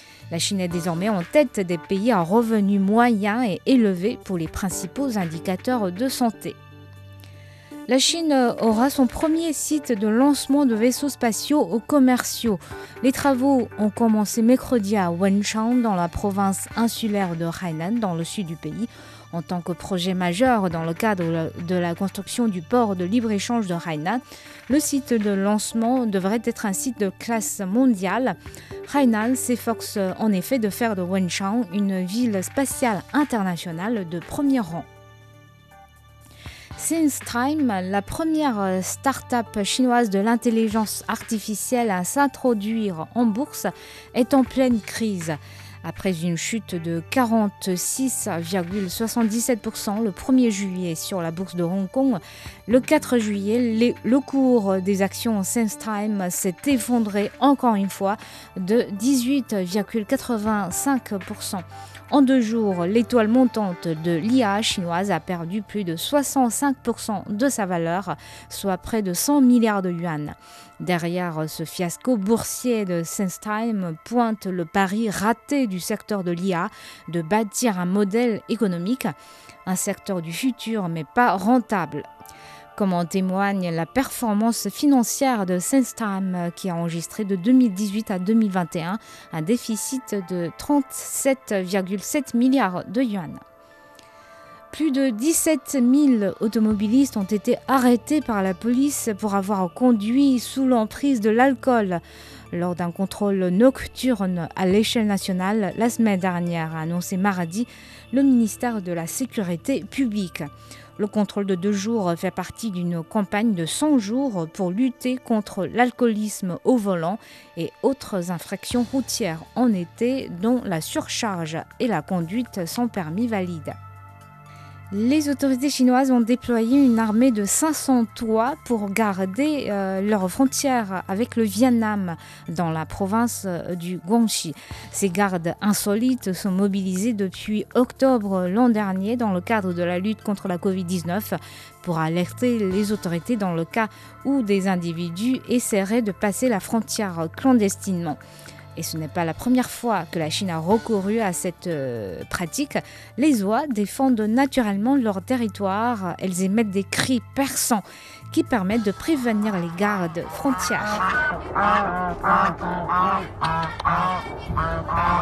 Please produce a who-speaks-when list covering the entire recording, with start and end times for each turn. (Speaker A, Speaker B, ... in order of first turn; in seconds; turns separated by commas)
Speaker A: 0.3-6.6, Speaker A: 7.9-34.9, Speaker A: 36.8-79.2, Speaker A: 79.7-82.1, Speaker A: 82.8-93.4, Speaker A: 94.7-102.0, Speaker A: 102.5-123.8, Speaker A: 124.9-148.2, Speaker A: 148.8-161.0